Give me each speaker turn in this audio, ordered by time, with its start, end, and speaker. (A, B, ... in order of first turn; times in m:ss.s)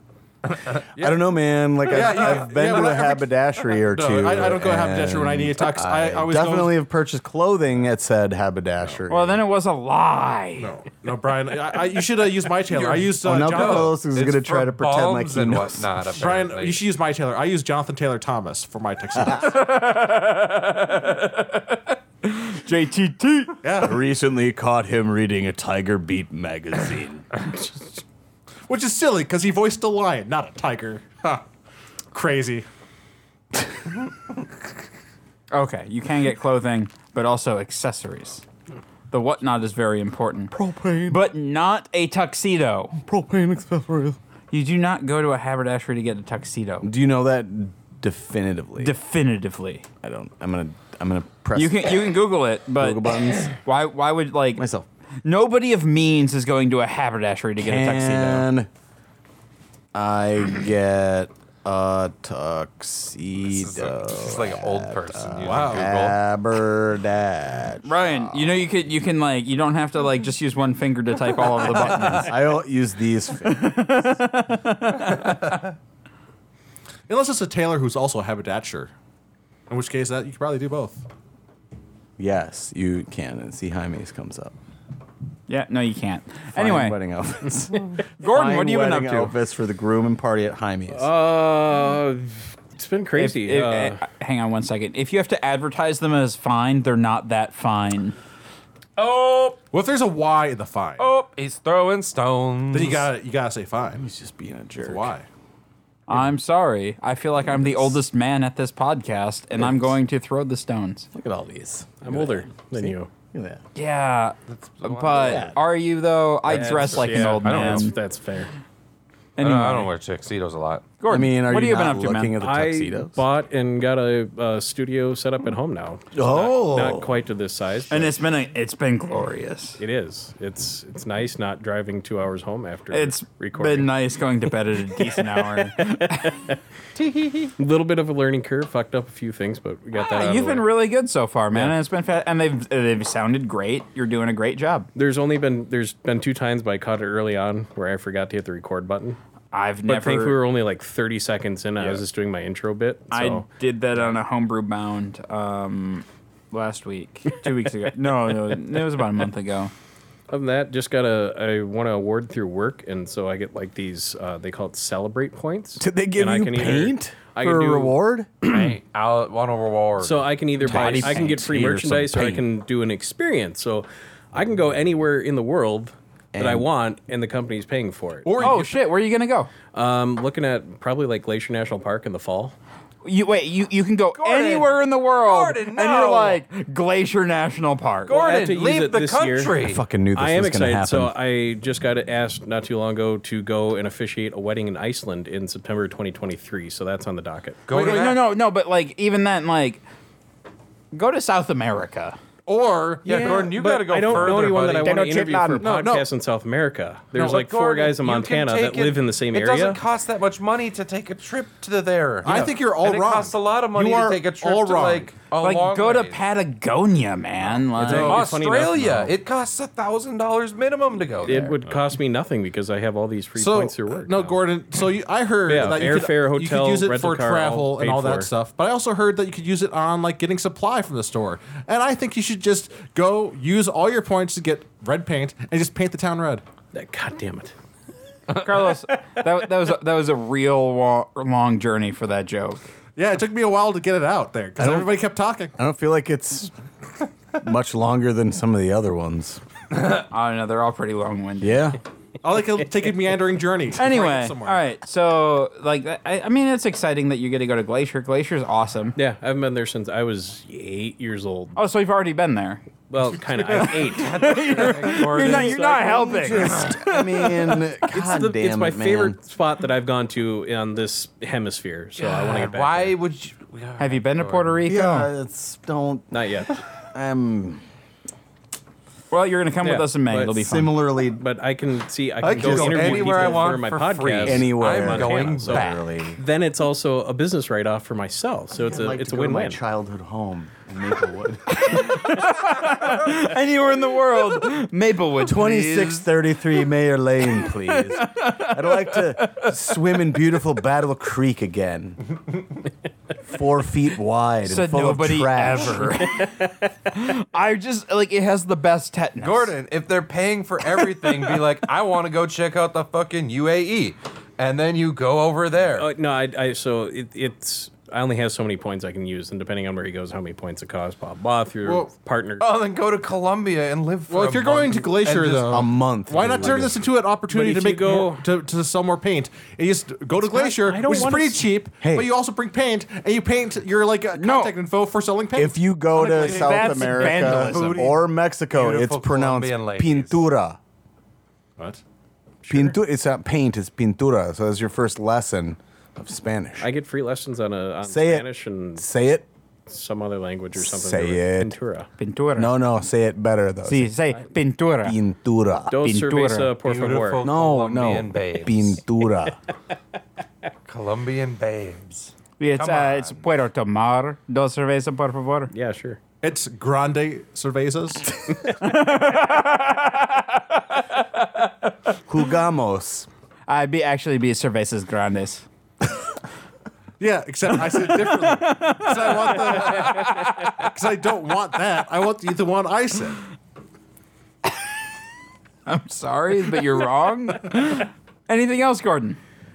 0:00.6-0:01.2 A
0:01.0-0:09.4 B
0:01.9-0:03.3 C
0:03.9-0:06.7 C
0:09.1-0:10.7 D
0:10.6-0:14.0 C
0:12.7-0:16.8 A
0:13.2-0:15.9 B
0:16.1-0:19.8 C
0:19.4-0:23.6 D
0:23.6-0:24.0 C
0:23.8-0:27.3 B
0:28.7-0:31.4 C
0:32.1-0:32.6 C
0:35.5-0:38.4 D
0:39.1-0:40.5 D
0:40.5-0:41.2 B
0:41.1-0:43.0 D
0:43.0-0:44.2 B
0:44.5-0:46.9 D
0:46.8-0:48.9 B
0:48.8-0:49.8 D
0:50.0-0:52.1 B
0:51.5-0:54.6 D
0:52.8-0:53.6 B
0:54.6-0:54.8 B
0:55.2-0:58.5 D
0:57.6-0:58.7 B
0:59.9-1:08.6 B
1:03.5-1:06.2 A
1:05.4-1:05.9 C
1:07.8-1:12.4 D
1:11.5-1:14.0 B
1:13.4-1:15.6 D
1:17.1-1:18.9 C
1:19.7-1:21.0 C
1:22.2-1:24.5 B
1:25.5-1:27.0 D
1:26.5-1:31.1 B
1:28.2-1:29.3 D
1:30.9-1:34.0 E
1:33.2-1:38.1 D
1:39.0-1:39.6 A
1:39.7-1:41.1 C
1:41.0-1:43.1 A
1:42.7-1:44.1 C
1:44.0-1:45.1 B
1:44.8-1:45.2 C
1:46.1-1:51.1 D
1:47.4-1:48.0 B
1:49.6-1:49.9 B
1:51.1-1:53.6 B
1:52.0-1:53.1 E
1:53.7-1:58.0 D
1:54.5-1:55.6 A
1:55.2-1:55.5 B
1:56.5-1:58.0 A
1:56.5-1:58.5 E
1:59.4-1:59.9 D
1:59.4-2:00.8 A
2:01.0-2:02.3 D
2:01.1-2:03.2 B
2:02.4-2:08.1 E
2:06.1-2:07.1 B
2:07.9-2:09.8 D
2:09.8-2:13.9 E
2:12.9-2:16.5 D
2:15.0-2:16.5 E
2:17.0-2:17.5 A
2:17.6-2:20.7 E
2:19.9-2:24.9 D
2:21.5-2:21.8 E
2:24.9-2:29.2 E
2:29.5-2:30.4 D
2:29.9-2:34.1 E
2:33.1-2:39.7 D
2:40.3-2:48.0 E
2:45.8-2:48.3 B
2:48.4-2:50.3 A
2:50.0-2:58.6 E
2:50.6-2:51.4 D
2:50.6-2:52.4 B
2:56.3-2:56.7 B
2:58.2-2:58.7 C
2:58.4-2:59.5 D
2:59.7-3:02.5 E
3:03.0-3:08.2 D
3:04.2-3:06.4 A
3:08.1-3:09.8 A
3:08.1-3:09.6 E
3:09.6-3:11.1 B
3:10.1-3:17.7 E
3:17.7-3:18.2 A
3:17.7-3:19.8 D
3:20.9-3:22.2 D
3:22.4-3:24.5 C
3:23.0-3:25.1 A
3:23.0-3:29.8 E
3:25.6-3:26.1 C
3:27.1-3:36.2 A
3:32.2-3:35.1 C
3:35.4-3:38.3 D
3:37.8-3:39.1 E
3:37.8-3:41.5 A
3:41.2-3:44.4 E
3:43.4-3:56.4 C
3:45.4-3:48.3 E
3:56.7-3:57.5 E
3:58.3-4:02.6 D
4:03.0-4:05.5 C
4:04.6-4:04.9 B
4:05.6-4:06.5 B
4:07.3-4:09.4 B
4:10.1-4:11.7 D
4:11.4-4:11.8 B
4:12.2-4:14.6 C
4:13.8-4:19.0 D
4:18.9-4:21.6 E
4:21.5-4:22.6 D
4:22.9-4:26.2 E
4:23.6-4:27.6 D
4:23.6-4:25.6 A
4:25.2-4:29.2 B
4:27.9-4:32.9 E
4:32.0-4:34.6 A
4:33.8-4:35.1 D
4:34.6-4:36.1 B
4:36.1-4:36.5 E
4:36.9-4:37.6 B
4:39.1-4:40.7 D
4:39.6-4:40.4 E
4:40.3-4:41.2 B
4:41.1-4:49.6 E
4:42.2-4:45.8 A
4:42.2-4:43.3 B
4:44.2-4:46.2 B
4:48.6-4:51.8 B
4:51.5-4:56.4 D
4:55.2-5:02.0 B
4:57.5-4:59.8 D
5:03.3-5:06.0 B
5:04.4-5:09.5 D
5:09.2-5:15.9 A
5:15.7-5:22.4 E
5:21.6-5:21.9 C
5:22.4-5:25.6 A
5:24.1-5:37.3 C
5:25.4-5:26.8 B
5:27.3-5:28.2 E
5:30.3-5:31.5 E
5:31.8-5:32.1 B
5:34.1-5:34.6 D
5:35.3-5:40.6 B
5:36.0-5:37.9 D
5:37.3-5:37.9 A
5:38.5-5:40.2 A
5:42.4-5:42.8 E
5:42.5-5:46.7 B
5:46.6-5:48.9 E
5:47.8-5:48.2 B
5:48.8-5:49.2 B
5:49.7-5:51.9 E
5:50.6-5:51.5 B
5:52.0-5:52.6 D
5:52.4-5:53.9 B
5:53.6-5:55.0 D
5:54.8-5:55.8 B
5:55.7-5:57.2 E
5:55.8-5:56.5 D
5:56.6-5:58.8 A
5:57.2-5:59.4 B
6:00.7-6:03.2 A
6:02.4-6:05.5 D
6:05.5-6:06.0 E
6:06.2-6:08.1 C
6:08.5-6:11.7 D
6:12.1-6:13.1 B
6:13.5-6:15.4 D
6:17.0-6:23.2 C
6:17.7-6:20.5 D
6:25.7-6:29.2 D